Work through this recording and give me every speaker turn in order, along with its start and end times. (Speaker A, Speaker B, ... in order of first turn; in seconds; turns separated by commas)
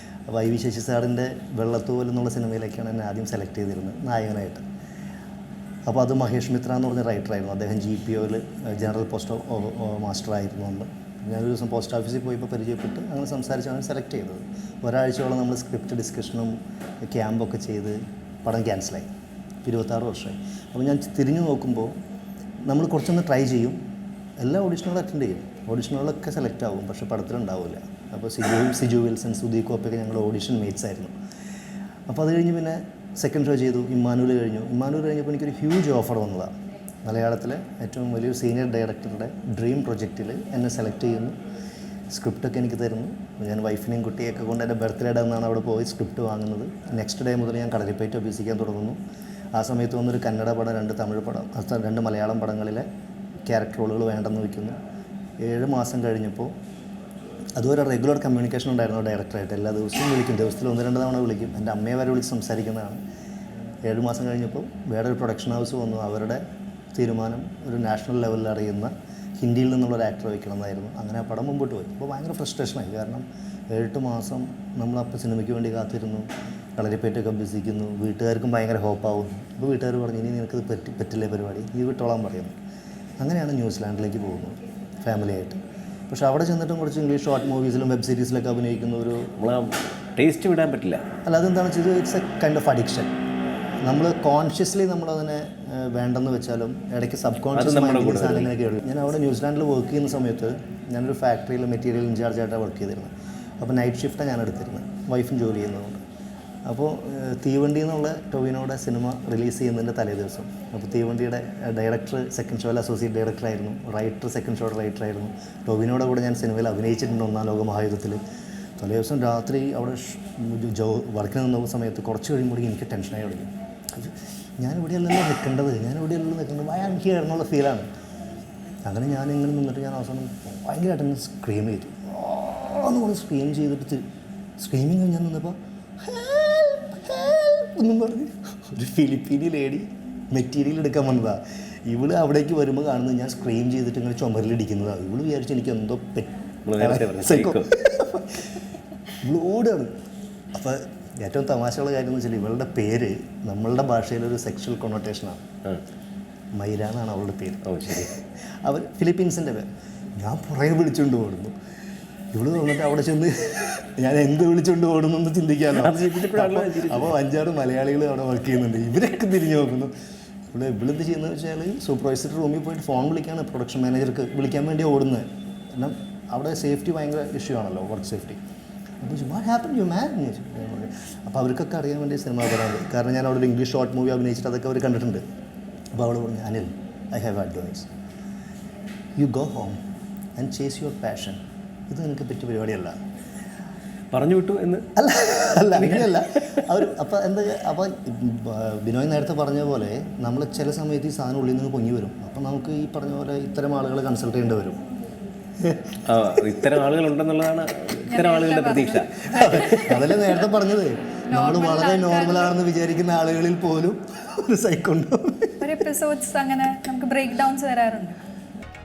Speaker A: 0.3-4.7, Speaker A: 5.9-19.1, Speaker A: 19.6-22.0, Speaker A: 22.7-23.8, Speaker A: 24.4-31.1, Speaker A: 32.1-36.5, Speaker A: 37.0-41.4, Speaker A: 42.1-49.0, Speaker A: 49.5-52.9, Speaker A: 53.4-54.8, Speaker A: 55.4-56.5, Speaker A: 57.5-63.0, Speaker A: 63.8-66.4, Speaker A: 67.0-82.6, Speaker A: 83.2-89.3, Speaker B: 89.4-91.0, Speaker A: 91.2-93.1, Speaker A: 93.8-106.0, Speaker B: 97.5-98.5, Speaker A: 106.7-118.2, Speaker A: 118.8-127.9, Speaker A: 128.8-134.1, Speaker A: 134.6-148.5, Speaker B: 146.7-147.7, Speaker A: 149.2-149.9, Speaker A: 150.5-155.4, Speaker A: 156.6-158.1, Speaker B: 157.7-158.1, Speaker A: 158.6-161.6, Speaker A: 162.3-169.9, Speaker B: 165.7-167.1, Speaker A: 170.5-178.4, Speaker A: 179.0-185.2, Speaker A: 185.9-187.9, Speaker A: 189.2-189.8, Speaker A: 190.4-193.0, Speaker B: 194.1-194.9, Speaker A: 195.0-204.8, Speaker B: 195.7-196.7, Speaker A: 205.6-206.0, Speaker B: 206.1-209.9, Speaker C: 208.1-209.9, Speaker A: 209.3-215.7, Speaker C: 211.3-212.5, Speaker C: 215.6-218.2